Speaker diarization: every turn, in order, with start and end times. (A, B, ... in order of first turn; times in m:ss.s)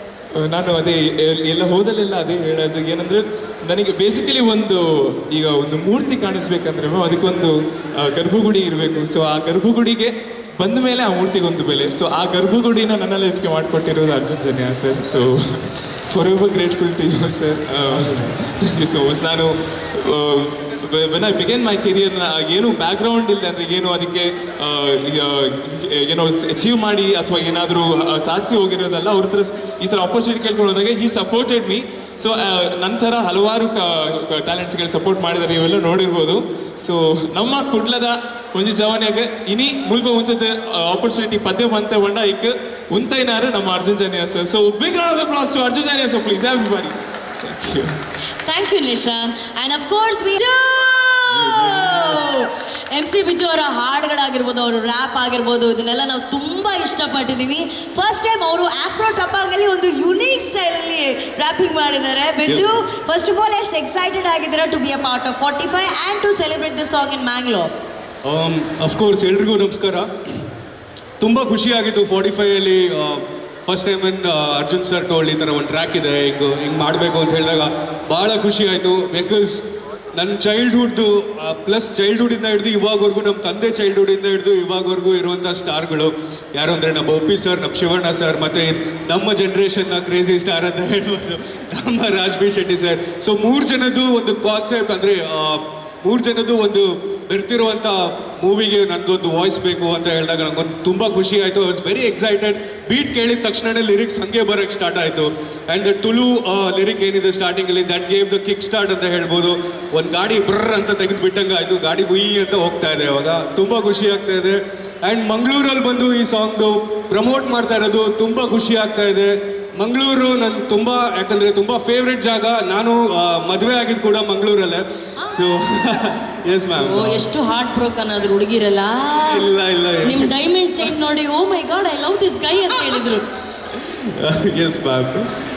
0:00.4-0:47.9 A
0:48.5-1:07.7 B
0:51.4-0:52.0 A
1:08.2-1:10.1 C
1:11.2-1:19.6 C
1:20.1-2:07.2 C
2:05.2-2:05.4 B
2:06.6-2:09.5 B
2:09.3-2:10.3 C
2:10.0-2:13.2 B
2:14.2-2:15.3 C